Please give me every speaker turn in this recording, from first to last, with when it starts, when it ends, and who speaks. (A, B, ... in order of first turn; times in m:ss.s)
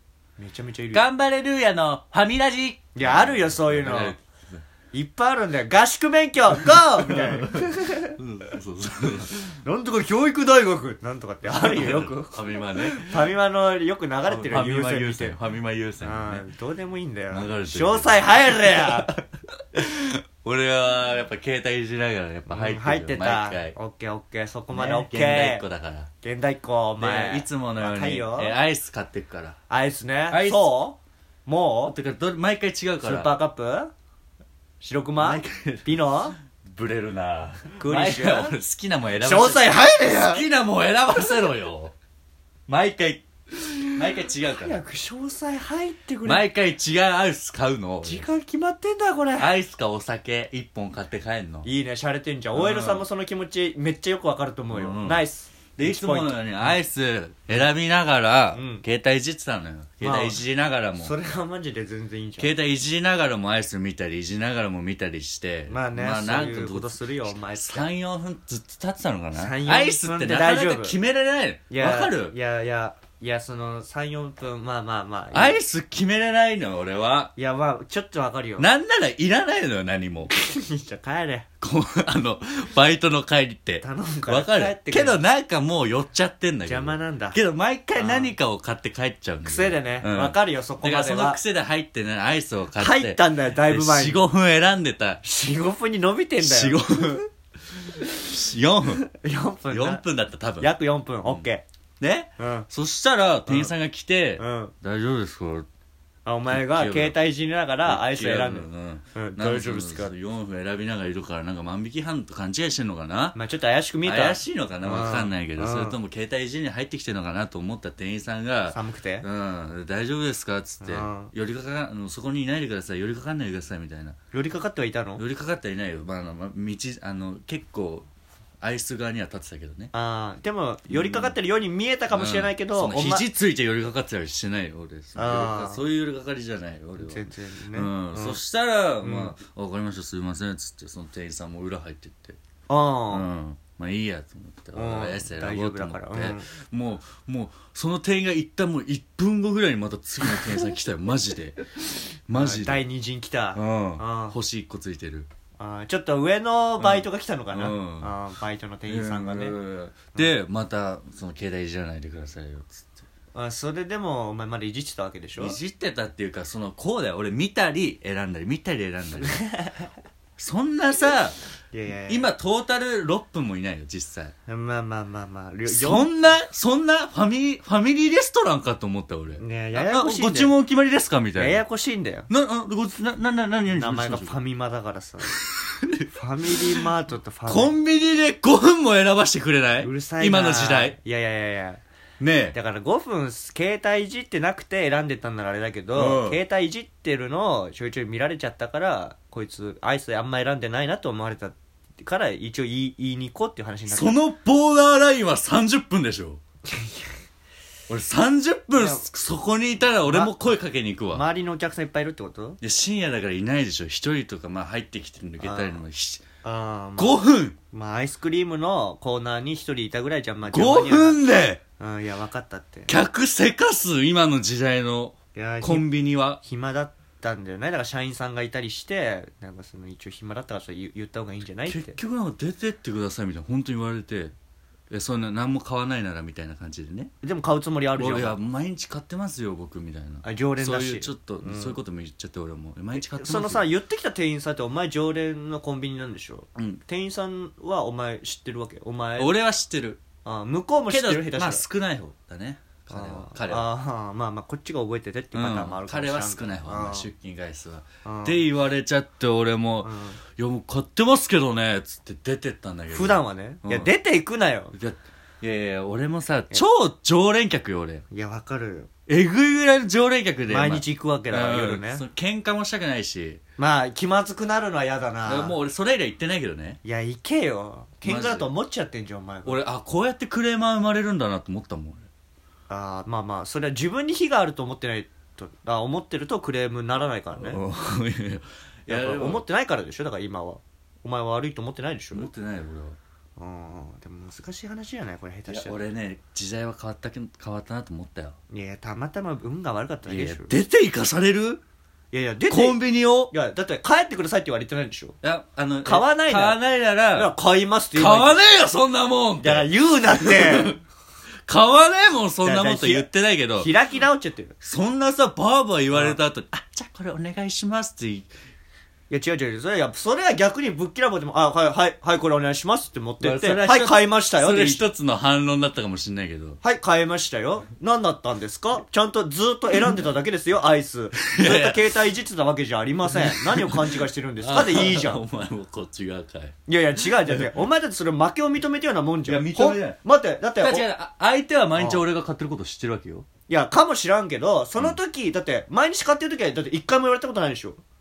0:00.4-0:01.0 A
0:00.9-0:04.6 B
0:02.9-0:04.2 A
0:04.9-0:08.2 A
0:06.6-0:09.4 B
0:09.3-0:15.4 A
0:11.4-0:13.3 B
0:14.2-0:16.5 B
0:16.0-0:19.2 A
0:17.3-0:19.1 B
0:19.7-0:23.8 B
0:22.5-0:25.6 A
0:24.7-0:26.1 B
0:26.2-0:28.5 A
0:27.0-0:29.6 B
0:29.7-0:31.9 A
0:30.3-0:30.7 B
0:31.8-0:33.3 B
0:33.0-0:33.9 A
0:34.8-0:36.4 A
0:35.2-0:36.0 B
0:36.6-0:41.9 B
0:37.7-0:38.6 A
0:39.2-0:40.4 A
0:42.7-0:44.8 B
0:44.6-0:46.4 A
0:46.2-0:48.2 B
0:48.0-0:49.5 A
0:49.4-0:51.7 B
0:51.6-0:56.8 A
0:52.5-0:53.0 B
0:54.7-0:55.2 B
0:55.8-1:01.1 B
0:58.5-0:58.8 A
1:00.0-1:00.4 A
1:01.0-1:02.5 A
1:02.4-1:12.3 B
1:05.7-1:07.9 A
1:09.3-1:11.0 A
1:11.7-1:15.6 A
1:15.3-1:17.3 B
1:17.4-1:18.7 A
1:18.6-1:20.3 B
1:20.3-1:21.5 A
1:21.6-1:35.2 B
1:23.8-1:25.2 A
1:26.6-1:27.4 A
1:28.0-1:28.3 A
1:29.4-1:31.4 A
1:32.7-1:34.3 A
1:35.2-1:37.3 A
1:36.4-1:37.2 B
1:37.9-1:39.0 B
1:39.1-1:40.0 A
1:39.7-1:41.5 B
1:40.6-1:41.6 A
1:42.0-1:45.6 B
1:42.4-1:42.7 A
1:43.5-1:43.7 A
1:44.4-1:44.7 A
1:46.2-1:50.1 A
1:46.5-1:47.2 B
1:47.8-1:53.4 B
1:53.3-1:56.0 A
1:54.0-2:04.2 B
1:58.7-1:59.2 A
2:00.8-2:01.3 A
2:04.3-2:05.2 A
2:05.2-2:08.1 B
2:08.6-2:09.9 B
2:09.9-2:13.2 A
2:10.9-2:11.4 B
2:12.1-2:17.2 B
2:15.2-2:15.8 A
2:17.0-2:18.4 A
2:17.7-2:22.4 B
2:19.0-2:19.3 A
2:22.7-2:23.2 A
2:23.1-2:32.8 B
2:24.7-2:26.5 A
2:32.4-2:34.4 A
2:33.5-2:35.3 B
2:35.6-2:39.6 A
2:36.8-2:38.1 B
2:38.9-2:42.9 B
2:43.3-2:45.6 A
2:45.4-2:49.4 B
2:49.2-2:49.9 A
2:50.4-2:51.4 B
2:51.7-2:52.3 A
2:52.1-2:54.3 B
2:54.5-2:56.1 A
2:55.6-3:01.6 B
2:59.4-3:00.5 A
3:01.4-3:02.3 A
3:02.3-3:04.4 B
3:03.7-3:05.4 A
3:05.3-3:06.8 B
3:06.1-3:07.8 A
3:07.5-3:11.0 B
3:09.8-3:11.8 A
3:12.2-3:12.6 B
3:12.5-3:24.2 A
3:15.9-3:16.4 B
3:23.9-3:26.4 B
3:26.7-3:27.2 A
3:27.9-3:31.2 B
3:28.8-3:29.1 A
3:30.0-3:30.3 A
3:31.1-3:32.6 A
3:32.6-3:36.2 B
3:35.4-3:35.8 A
3:36.4-3:37.2 A
3:37.0-3:37.6 B
3:37.7-3:41.2 A
3:40.5-3:41.6 B
3:41.8-3:42.9 A
3:42.9-3:46.4 B
3:45.3-3:45.9 A
3:46.4-3:52.0 A
3:51.6-3:54.3 B
3:54.9-3:57.1 B
3:57.2-3:58.4 A
3:58.0-4:03.7 B
4:00.2-4:01.8 A
4:02.9-4:09.3 A
4:06.6-4:06.8 B
4:09.2-4:10.0 B
4:10.2-4:11.6 A
4:10.9-4:13.7 B
4:12.9-4:17.1 A
4:15.3-4:23.9 B
4:18.0-4:18.4 A
4:19.8-4:20.2 A
4:22.9-4:24.7 A
4:24.7-4:28.0 B
4:28.1-4:28.9 A
4:29.1-4:33.4 B
4:30.5-4:32.0 A
4:33.6-4:35.6 A
4:35.2-4:36.8 B
4:36.8-4:39.6 A
4:38.0-4:38.5 B
4:39.4-4:42.1 B
4:42.7-4:47.6 A
4:47.3-4:49.4 B
4:48.9-4:52.3 A
4:52.1-4:53.0 B
4:53.4-4:55.8 A
4:55.5-4:58.4 B
4:58.5-5:00.6 A
5:00.0-5:01.6 B
5:02.1-5:05.2 A
5:02.5-5:03.3 B
5:05.2-5:07.3 B
5:05.8-5:06.6 A
5:07.1-5:08.4 A
5:07.9-5:10.8 B
5:09.4-5:10.8 A
5:11.5-5:13.7 B
5:12.4-5:14.5 A
5:14.6-5:18.3 B
5:15.9-5:16.2 A
5:19.1-5:24.8 A
5:23.2-5:26.6 B
5:26.6-5:35.2 A
5:31.2-5:31.9 B
5:33.0-5:36.5 B
5:36.7-5:40.8 A
5:37.0-5:37.5 B
5:39.2-5:40.0 B
5:40.6-5:43.2 B
5:41.7-5:42.0 A
5:43.5-5:47.8 A